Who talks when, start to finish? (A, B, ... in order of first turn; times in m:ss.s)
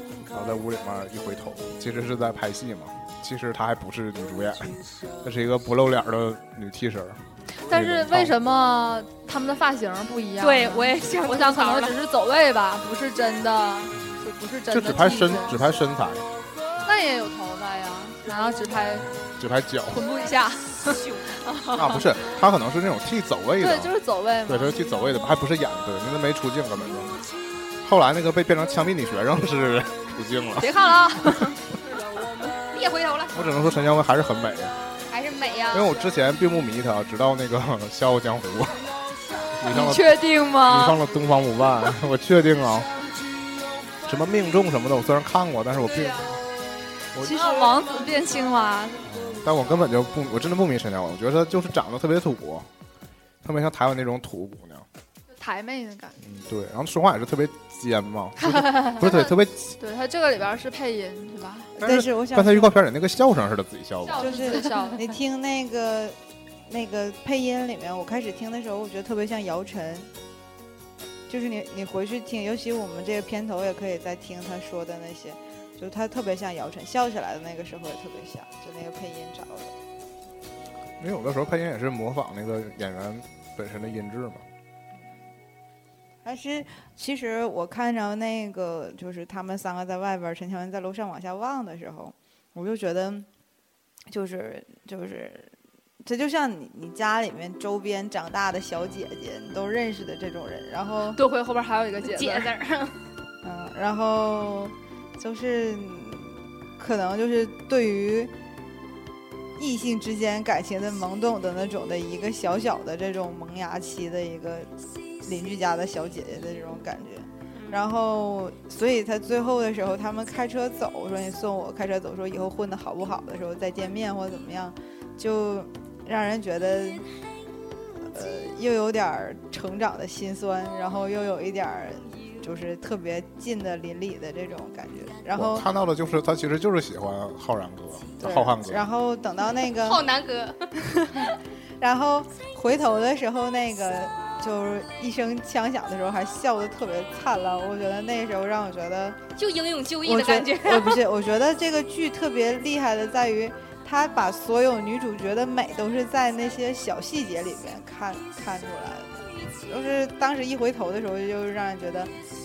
0:00.3-0:08.4 A
0:07.6-0:15.6 B
0:10.4-0:12.0 C
0:14.7-0:16.3 A
0:16.8-0:19.1 B
0:19.1-0:20.0 A
0:19.9-0:22.0 B
0:20.9-0:21.3 C
0:21.8-0:23.9 A
0:23.6-0:24.8 B
0:24.5-0:27.2 A
0:27.8-0:30.7 A
0:30.6-0:31.6 B
0:32.7-0:33.6 C
0:33.3-0:34.8 A
0:35.1-0:36.0 C
0:35.7-0:38.8 A
0:39.6-0:42.9 A
0:39.7-0:41.0 B
0:44.1-0:46.4 A
0:45.8-0:46.4 C
0:47.1-0:47.4 A
0:47.2-0:49.1 B
0:49.0-0:52.7 A
0:53.4-0:54.9 A
0:55.4-0:56.2 B
0:56.2-0:59.8 A
0:58.4-1:01.7 B
1:01.8-1:04.4 A
1:01.8-1:02.7 D
1:04.1-1:04.8 C
1:04.2-1:05.0 B
1:04.2-1:06.2 D
1:06.7-1:10.1 D
1:11.3-1:19.7 D
1:21.0-1:24.4 A
1:26.2-1:33.3 D
1:34.1-1:35.5 D
1:36.0-1:41.2 D
1:41.2-1:42.5 B
1:42.0-1:43.0 C
1:43.4-1:48.3 D
1:49.6-1:54.7 D
1:55.2-2:07.1 D
1:57.6-1:57.9 C
2:08.1-2:15.7 D
2:15.3-2:18.9 A
2:18.2-2:20.0 D
2:19.8-2:20.7 C
2:21.8-2:29.2 D
2:29.4-2:31.0 C
2:30.0-2:42.1 D